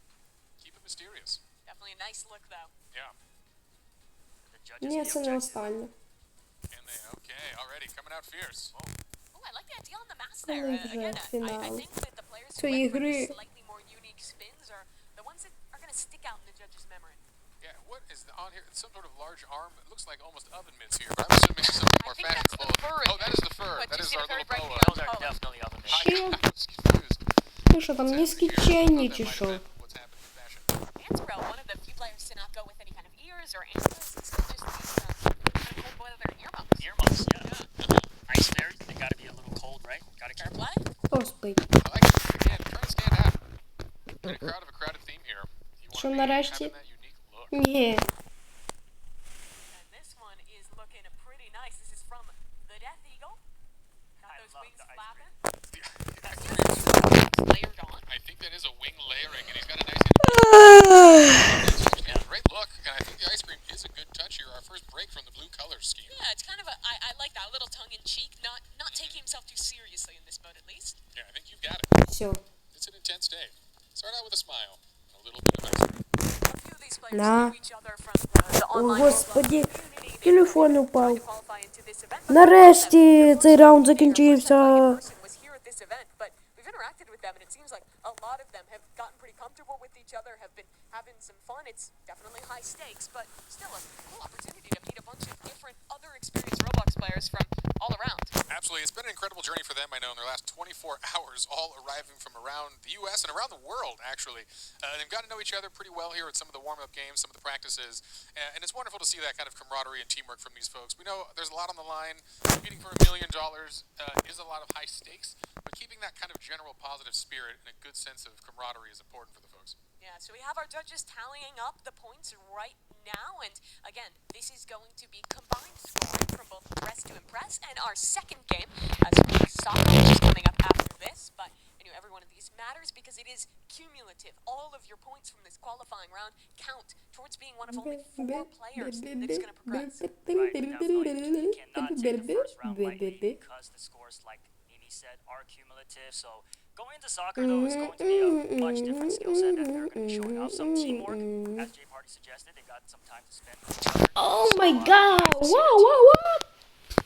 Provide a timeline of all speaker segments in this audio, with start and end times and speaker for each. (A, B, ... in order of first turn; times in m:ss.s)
0:00.6-0:01.4 A
0:01.7-0:02.7 B
0:02.9-0:03.2 A
0:04.4-0:05.8 C
0:04.8-0:05.9 D
0:06.7-0:08.8 A
0:09.3-0:17.2 B
0:10.4-0:11.9 D
0:12.6-0:13.4 D
0:17.6-0:25.0 A
0:21.9-0:25.4 B
0:24.7-0:26.2 C
0:25.9-0:26.4 D
0:25.9-0:27.3 A
0:27.7-0:29.6 D
0:28.0-0:30.7 A
0:31.0-0:36.9 B
0:36.8-0:37.6 C
0:37.4-0:37.7 B
0:37.8-0:38.1 A
0:38.3-0:40.8 C
0:40.4-0:40.8 B
0:41.1-0:41.6 D
0:41.8-0:43.4 A
0:44.2-0:47.5 A
0:45.9-0:46.7 D
0:47.5-0:48.1 D
0:49.7-0:53.4 B
0:54.2-0:55.3 C
0:54.2-0:55.3 B
0:55.7-0:57.0 A
0:56.3-0:58.1 B
0:58.1-1:06.2 A
1:00.2-1:01.7 D
1:06.1-1:11.0 B
1:08.9-1:09.2 A
1:11.1-1:11.9 A
1:12.1-1:12.4 D
1:12.7-1:16.0 A
1:16.5-1:38.3 B
1:17.1-1:17.6 D
1:18.7-1:19.7 D
1:20.2-1:21.2 D
1:22.3-1:25.0 D
1:38.5-1:59.8 A
2:00.0-2:20.1 B
2:17.7-2:23.4 D
2:20.3-2:36.1 C
2:27.4-2:31.7 D
2:34.2-2:36.4 D